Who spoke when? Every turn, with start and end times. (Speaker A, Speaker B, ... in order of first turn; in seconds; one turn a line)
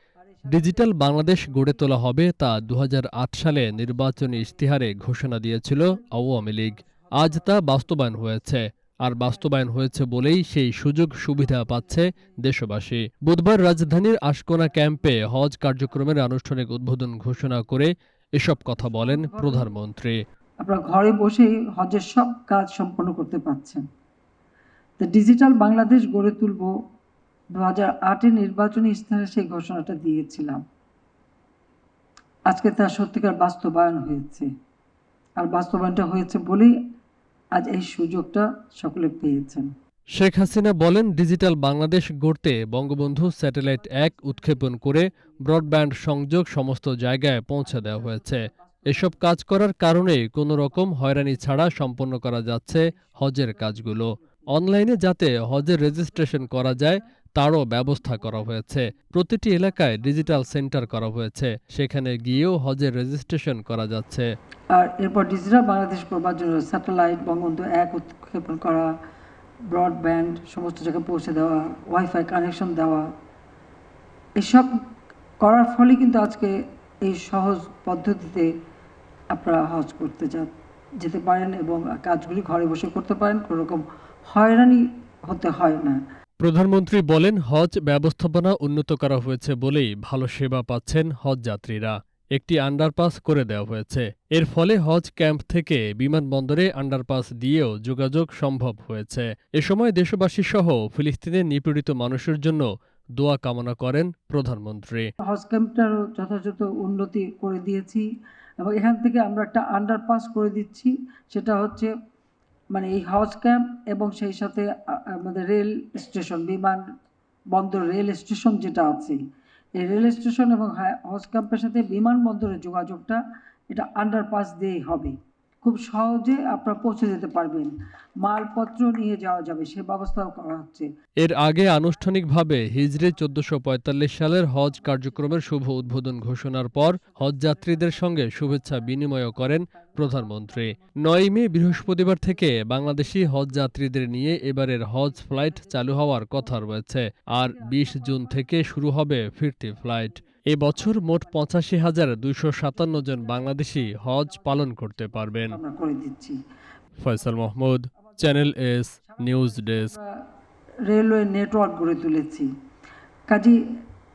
Speaker A: 0.2-2.2
Speaker B: 0.5-20.2
Speaker A: 3.4-8.4
Speaker A: 9.1-10.5
Speaker A: 11.3-12.6
Speaker A: 14.6-16.1
Speaker A: 18.8-19.7
Speaker A: 20.6-23.8
Speaker A: 25.0-26.7
Speaker A: 27.5-30.6
Speaker A: 32.5-34.5
Speaker A: 35.4-36.7
Speaker A: 37.6-39.7
Speaker B: 40.2-64.3
Speaker A: 42.7-46.0
Speaker A: 47.6-49.4
Speaker A: 50.5-61.3
Speaker A: 62.1-62.6
Speaker A: 64.7-68.9
Speaker A: 69.7-73.0
Speaker A: 74.4-74.7
Speaker A: 75.4-76.5
Speaker A: 77.0-78.5
Speaker A: 79.3-86.0
Speaker B: 86.4-102.6
Speaker B: 103.2-105.1
Speaker A: 105.2-108.1
Speaker A: 108.6-111.9
Speaker A: 112.7-116.8
Speaker A: 117.5-119.2
Speaker A: 119.8-130.9
Speaker B: 131.2-155.6
Speaker A: 131.8-133.6
Speaker A: 134.3-146.8
Speaker A: 147.4-148.9
Speaker A: 149.6-156.4
Speaker B: 157.0-159.9
Speaker A: 157.2-160.1
Speaker A: 160.9-162.5
Speaker A: 163.3-163.6